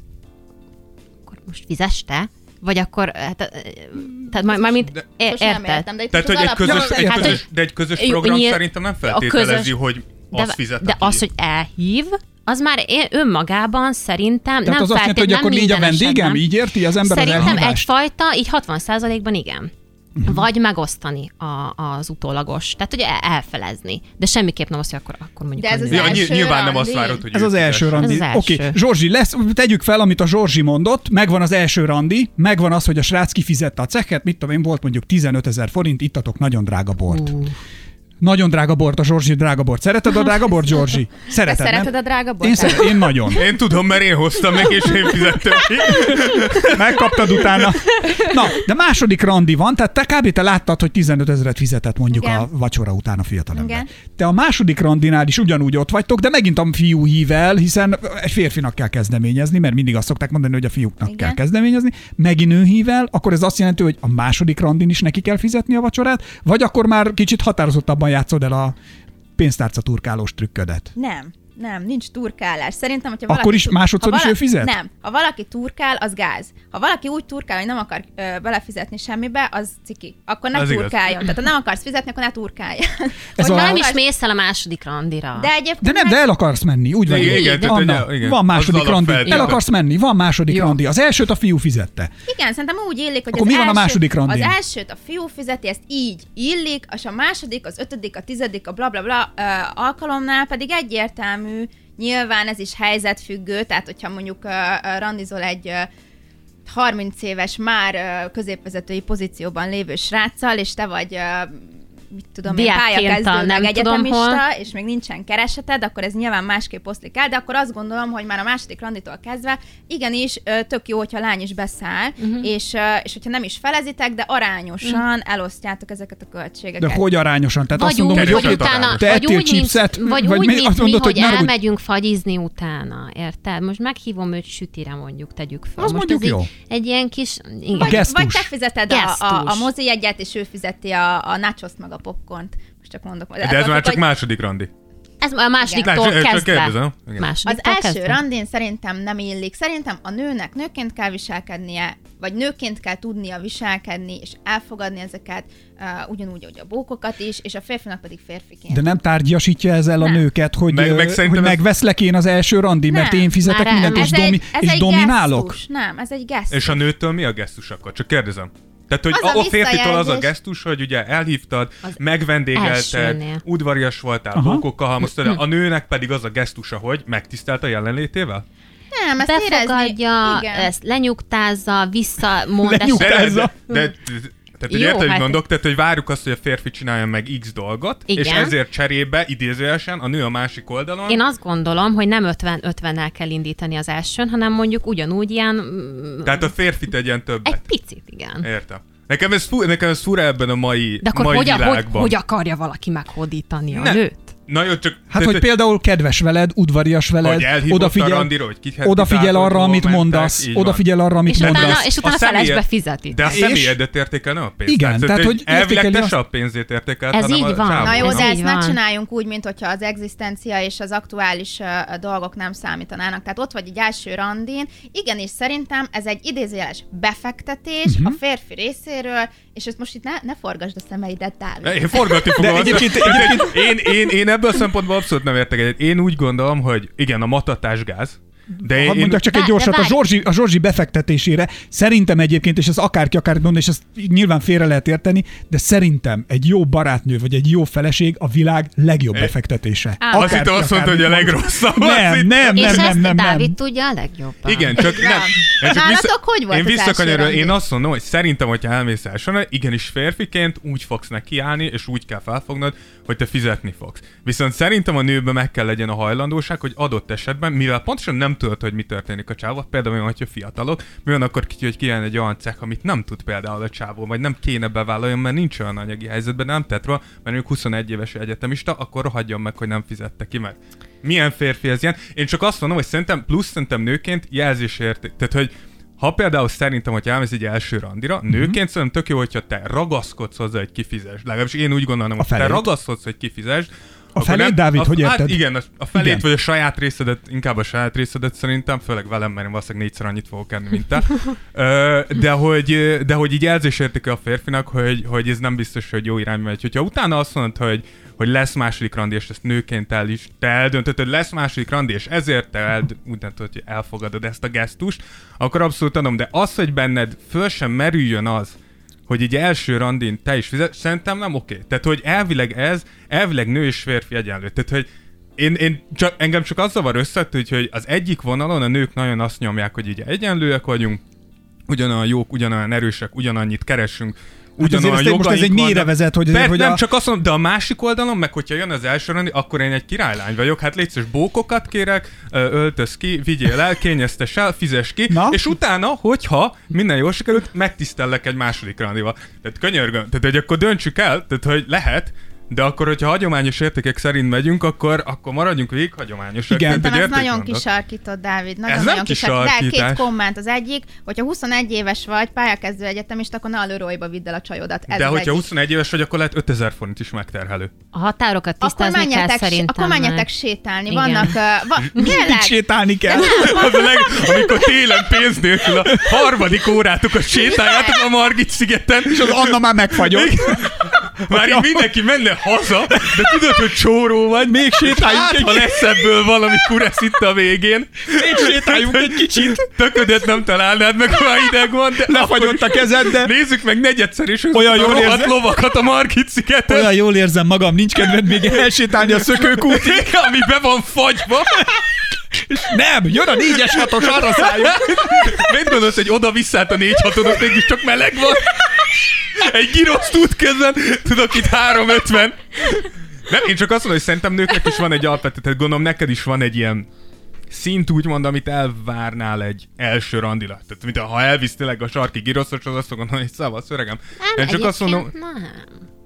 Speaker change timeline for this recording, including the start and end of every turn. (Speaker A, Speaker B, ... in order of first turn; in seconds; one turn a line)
Speaker A: 1.3-5.9
Speaker B: 5.2-7.3
Speaker C: 6.1-11.2
Speaker D: 6.6-7.4
Speaker A: 7.1-7.4
Speaker A: 8.0-9.7
Speaker A: 10.3-16.4
Speaker D: 14.7-17.9
Speaker A: 17.0-19.7
Speaker A: 20.2-26.3
Speaker B: 25.6-27.2
Speaker C: 25.9-28.2
Speaker D: 27.3-37.4
Speaker A: 28.0-28.8
Speaker A: 37.1-37.5
Speaker D: 38.2-43.5
Speaker B: 41.4-43.1
Speaker C: 43.3-47.1
Speaker D: 46.6-68.8
Speaker B: 52.1-52.5
Speaker B: 53.5-53.9
Speaker B: 61.0-61.4
Speaker D: 69.4-70.9
Speaker B: 71.0-84.0
Speaker D: 73.3-74.8
Speaker C: 80.5-81.0
Speaker D: 83.4-83.8
Speaker A: 83.4-85.5
Speaker B: 85.4-86.2
Speaker D: 85.8-92.1
Speaker C: 87.1-89.6
Speaker A: 89.3-89.5
Speaker A: 90.5-90.8
Speaker B: 92.3-105.9
Speaker D: 93.3-94.6
Speaker B: 106.7-127.0
Speaker A: 112.5-114.4
Speaker A: 122.2-122.5
Speaker D: 126.8-131.5
Speaker A: 127.7-138.1
Speaker C: 128.1-129.2
Speaker D: 135.8-136.5
Speaker B: 137.7-144.1
Speaker D: 137.8-138.5
Speaker A: 138.9-139.7
Speaker C: 143.4-144.7
Speaker A: 145.2-148.2
Speaker B: 145.6-145.9
Speaker C: 145.8-147.3
Speaker B: 147.4-158.9
Speaker D: 158.7-165.6
Speaker C: 160.7-161.6
Speaker B: 162.9-166.8
Speaker A: 163.4-164.3
Speaker C: 166.5-178.4
Speaker B: 169.1-170.3
Speaker A: 172.5-173.4
Speaker D: 174.3-174.7
Speaker B: 178.9-180.7
Speaker A: 179.2-183.9
Speaker D: 182.6-183.5
Speaker C: 183.0-191.2
Speaker A: 184.7-185.4
Speaker A: 188.1-188.6
Speaker A: 191.1-196.5
Speaker C: 196.2-197.6
Speaker A: 197.4-198.5
Speaker C: 198.4-202.2
Speaker A: 201.0-204.3
Speaker C: 203.7-205.5
Speaker D: 205.1-211.9
Speaker C: 207.2-210.8
Speaker A: 211.3-213.3
Speaker C: 211.3-218.3
Speaker D: 213.2-213.8
Speaker D: 214.7-216.2
Speaker A: 217.1-218.8
Speaker B: 217.8-233.3
Speaker D: 227.8-228.2
Speaker C: 231.6-239.3
Speaker D: 232.4-234.0
Speaker D: 238.6-253.6
Speaker A: 239.3-240.0
Speaker B: 250.0-250.5
Speaker C: 250.1-253.0
Speaker A: 252.5-254.8
Speaker C: 254.5-318.6
Speaker B: 254.8-257.6
Speaker D: 288.3-288.6
Speaker D: 292.2-292.7
Speaker D: 294.1-295.4
Speaker D: 295.9-296.2
Speaker C: 319.1-331.0
Speaker C: 331.7-357.6
Speaker D: 334.6-336.8
Speaker D: 345.1-345.4
Speaker D: 356.5-356.9
Speaker B: 356.7-365.5
Speaker C: 358.7-360.1
Speaker C: 364.9-367.7
Speaker A: 367.9-370.3
Speaker B: 368.6-372.6
Speaker A: 370.9-371.4
Speaker D: 371.9-373.7
Speaker B: 373.1-373.7
Speaker C: 373.2-396.9
Speaker B: 377.5-378.0
Speaker D: 379.1-380.7
Speaker D: 381.3-381.9
Speaker D: 382.9-383.6
Speaker D: 384.4-385.9
Speaker D: 388.1-389.7
Speaker D: 392.0-393.3
Speaker D: 394.5-395.4
Speaker D: 396.7-400.1
Speaker C: 399.4-401.6
Speaker D: 402.5-405.5
Speaker C: 403.6-416.9
Speaker C: 417.5-425.1
Speaker A: 424.2-425.8